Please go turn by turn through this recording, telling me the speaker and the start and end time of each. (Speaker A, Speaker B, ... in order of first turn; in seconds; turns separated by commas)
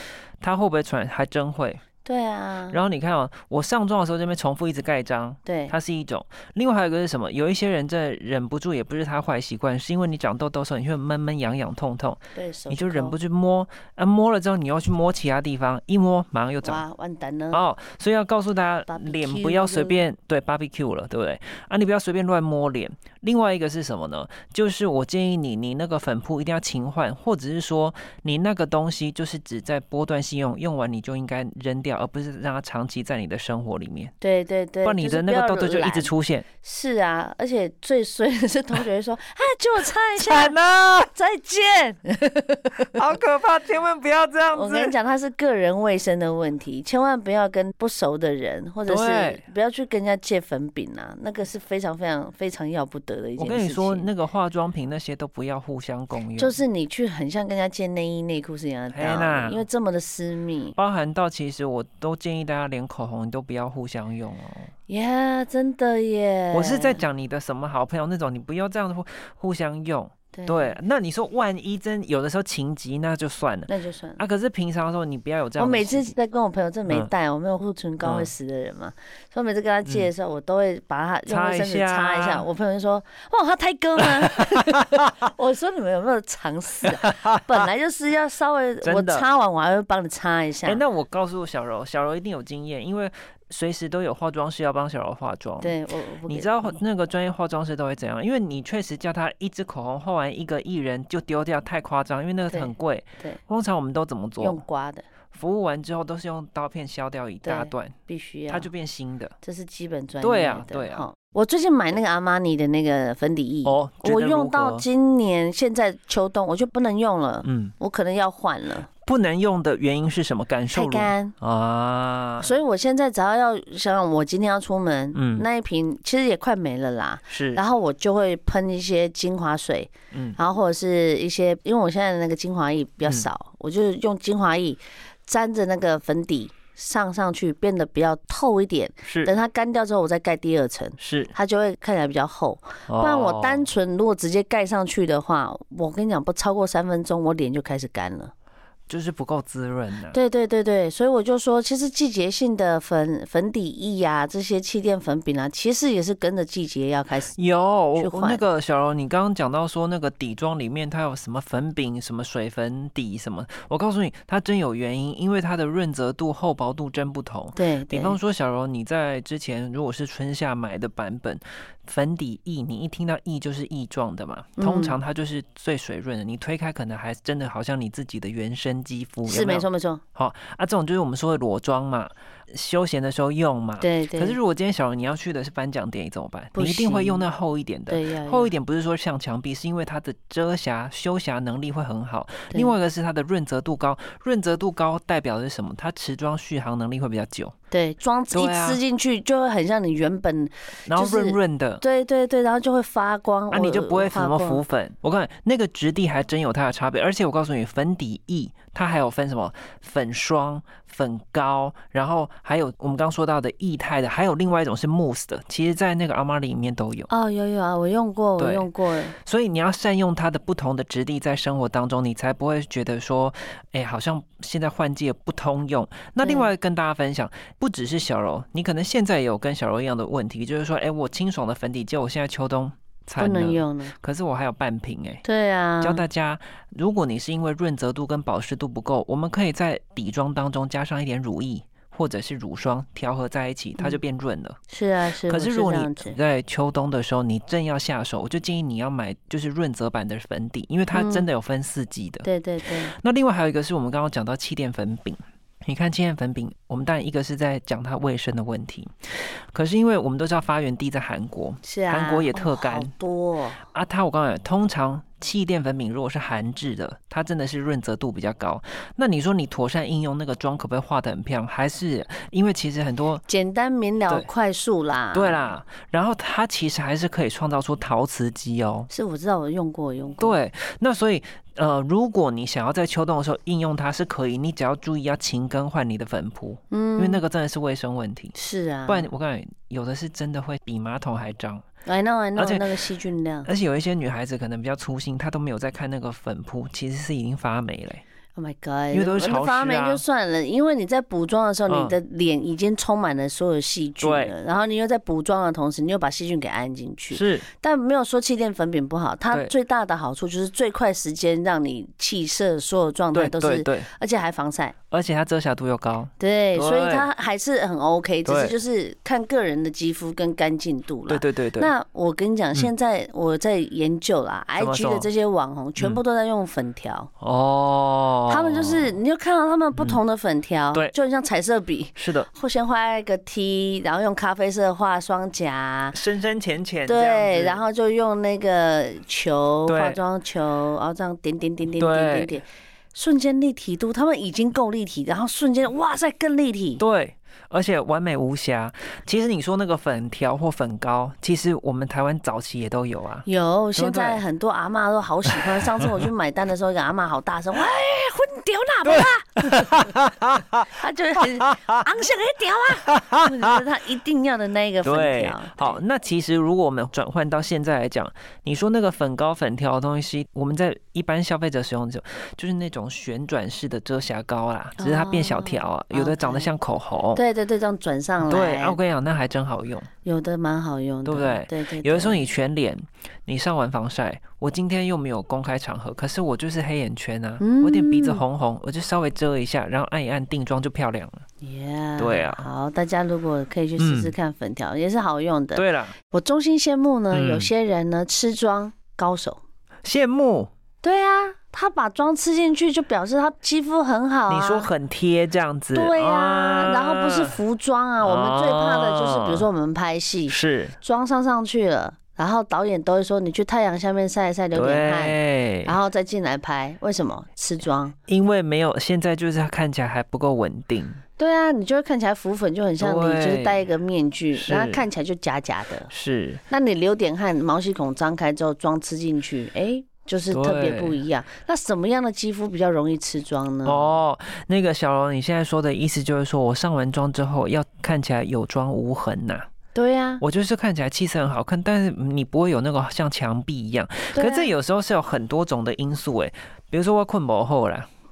Speaker A: 0.4-1.8, Speaker B: 2.0-2.8, Speaker A: 2.7-16.8, Speaker B: 5.4-5.7, Speaker B: 12.3-13.2, Speaker B: 16.6-17.6, Speaker A: 17.5-34.1, Speaker B: 18.9-20.0, Speaker B: 34.2-40.6, Speaker A: 34.8-36.4, Speaker A: 40.2-41.1, Speaker B: 41.1-42.8, Speaker A: 42.9-44.9, Speaker B: 44.5-54.1, Speaker A: 48.9-49.4, Speaker A: 53.4-56.6, Speaker B: 56.4-60.8, Speaker A: 58.9-59.6, Speaker A: 60.8-64.7, Speaker B: 64.9-67.0, Speaker A: 66.5-76.1, Speaker B: 70.3-70.8, Speaker B: 73.7-74.2, Speaker B: 75.6-90.8, Speaker A: 78.0-78.3, Speaker A: 81.3-82.5, Speaker A: 84.2-85.0, Speaker A: 87.0-87.5, Speaker A: 88.8-89.2, Speaker A: 90.6-104.6, Speaker B: 95.6-96.8, Speaker B: 102.5-103.4, Speaker B: 104.4-105.1, Speaker A: 105.3-108.0, Speaker B: 107.4-108.7, Speaker A: 108.5-109.3, Speaker B: 109.4-118.9, Speaker A: 110.2-111.1, Speaker A: 113.6-114.8, Speaker A: 117.4-117.7, Speaker A: 119.0-122.5, Speaker B: 120.7-121.3, Speaker B: 122.4-148.3, Speaker A: 125.1-125.5, Speaker A: 127.3-127.6, Speaker A: 130.1-130.4, Speaker A: 139.1-139.3, Speaker A: 141.0-141.3, Speaker A: 142.9-143.7, Speaker A: 148.9-150.2, Speaker B: 150.1-157.3, Speaker A: 157.3-197.5, Speaker B: 158.0-158.4, Speaker B: 167.5-168.2, Speaker B: 174.6-175.0, Speaker B: 179.2-180.0, Speaker B: 183.8-184.4, Speaker B: 186.5-187.2, Speaker B: 187.9-188.5, Speaker B: 197.7-204.6, Speaker A: 198.3-198.8, Speaker A: 200.9-201.8, Speaker A: 203.5-217.1, Speaker B: 217.1-219.2, Speaker A: 218.4-218.7, Speaker A: 219.2-235.2, Speaker B: 226.2-226.5, Speaker B: 233.2-233.9, Speaker B: 235.2-236.0, Speaker A: 235.8-244.6, Speaker B: 244.7-246.2, Speaker A: 245.3-252.3, Speaker B: 250.9-251.3, Speaker B: 252.2-252.9, Speaker A: 252.9-258.9, Speaker A: 259.5-262.9, Speaker B: 261.6-263.6, Speaker A: 263.7-273.2, Speaker B: 273.3-275.4, Speaker A: 275.1-278.9, Speaker B: 278.9-280.4, Speaker A: 280.2-288.3, Speaker B: 286.7-287.2, Speaker B: 288.3-289.1, Speaker A: 288.9-291.6, Speaker B: 291.9-293.5, Speaker A: 292.4-292.7, Speaker A: 293.4-298.0, Speaker B: 298.3-314.7, Speaker A: 298.9-300.0, Speaker A: 301.7-301.9, Speaker A: 304.0-304.3, Speaker A: 307.1-307.5, Speaker A: 313.1-313.9, Speaker A: 314.9-317.1, Speaker B: 316.2-327.1, Speaker A: 318.2-318.5, Speaker A: 321.1-321.7, Speaker A: 324.6-325.1, Speaker A: 327.2-328.9, Speaker B: 328.3-336.0, Speaker A: 332.0-332.3, Speaker A: 335.9-337.6, Speaker B: 336.9-346.8, Speaker A: 339.6-340.0, Speaker A: 341.8-342.3, Speaker A: 346.8-354.2, Speaker B: 353.2-359.9, Speaker A: 355.4-355.9, Speaker A: 358.9-360.6, Speaker B: 360.6-365.8, Speaker A: 361.5-361.8, Speaker A: 362.9-363.6, Speaker A: 364.8-377.2, Speaker B: 374.8-376.5, Speaker B: 377.1-378.8, Speaker A: 378.2-379.9, Speaker B: 380.0-382.2, Speaker A: 381.0-391.2, Speaker B: 387.4-388.2, Speaker B: 391.4-399.4, Speaker A: 392.0-392.5, Speaker A: 393.8-394.1, Speaker A: 395.5-395.9, Speaker A: 397.1-397.5, Speaker A: 399.8-400.5, Speaker B: 400.8-404.7, Speaker A: 404.3-407.4, Speaker B: 405.7-417.9, Speaker A: 408.0-409.5, Speaker A: 410.3-410.8, Speaker A: 414.5-415.7, Speaker A: 418.1-421.0, Speaker B: 421.2-425.9, Speaker A: 422.8-423.6, Speaker A: 424.3-424.9, Speaker A: 425.9-426.4, Speaker B: 426.5-434.0, Speaker A: 430.3-431.0, Speaker A: 433.6-439.5, Speaker B: 439.7-440.2, Speaker A: 440.2-447.9, Speaker B: 444.1-444.5